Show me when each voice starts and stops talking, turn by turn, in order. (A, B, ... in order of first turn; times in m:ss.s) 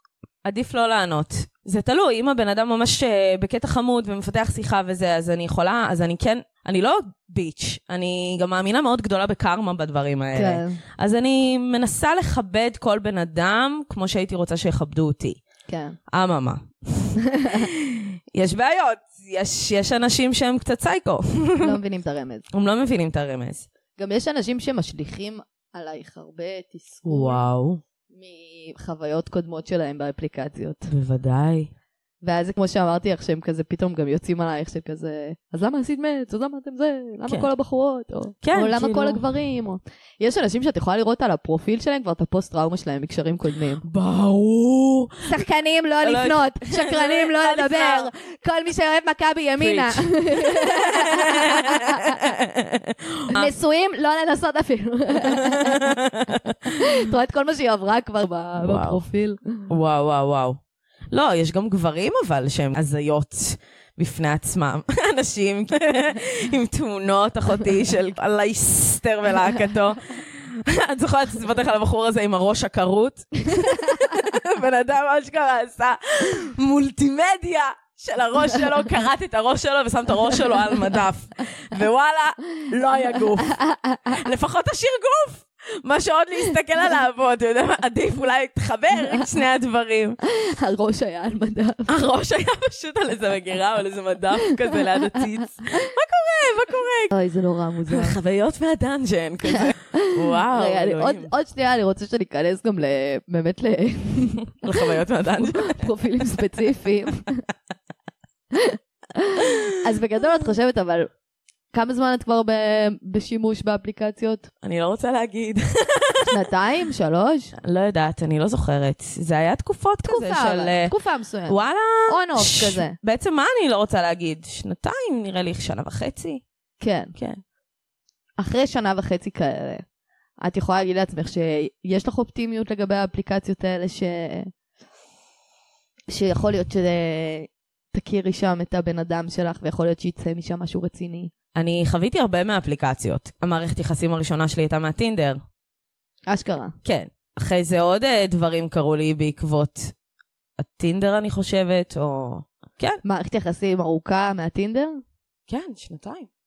0:00.4-0:15.4 A
0:10.3-0:10.8 B
0:15.7-0:16.0 B
0:16.1-0:21.8 A
0:17.2-0:17.7 B
0:21.6-0:22.5 B
0:22.5-0:23.7 A
0:24.0-0:27.4 B
0:27.1-0:27.8 A
0:28.1-0:30.9 B
0:30.9-0:31.7 A
0:32.2-0:43.8 B
0:38.4-0:39.2 A
0:43.8-0:45.4 A
0:45.3-0:52.2 B
0:46.0-0:48.1 A
0:49.6-0:53.5 A
0:53.3-0:56.0 B
0:55.2-0:56.8 A
0:56.7-0:59.7 B
0:58.6-0:59.0 A
0:59.7-1:00.6 A
1:01.1-1:30.2 A
1:13.6-1:14.0 B
1:23.6-1:24.0 B
1:30.2-1:31.9 B
1:31.9-1:37.1 A
1:34.7-1:35.2 B
1:37.1-1:38.2 B
1:37.9-1:41.3 A
1:39.6-1:44.8 B
1:44.6-1:45.9 A
1:45.4-1:47.4 B
1:48.5-1:51.1 B
1:51.7-1:54.5 B
1:54.6-1:56.4 A
1:56.3-1:57.5 B
1:57.6-2:00.9 A
2:00.0-2:03.0 B
2:01.5-2:06.4 A
2:06.8-2:07.1 B
2:07.2-2:07.4 A
2:08.4-2:09.8 B
2:10.4-2:14.5 B
2:16.1-2:21.3 B
2:21.6-2:25.4 A
2:26.3-2:26.8 B
2:26.8-2:29.9 A
2:30.6-2:33.0 A
2:33.0-2:35.0 B
2:35.5-2:36.3 A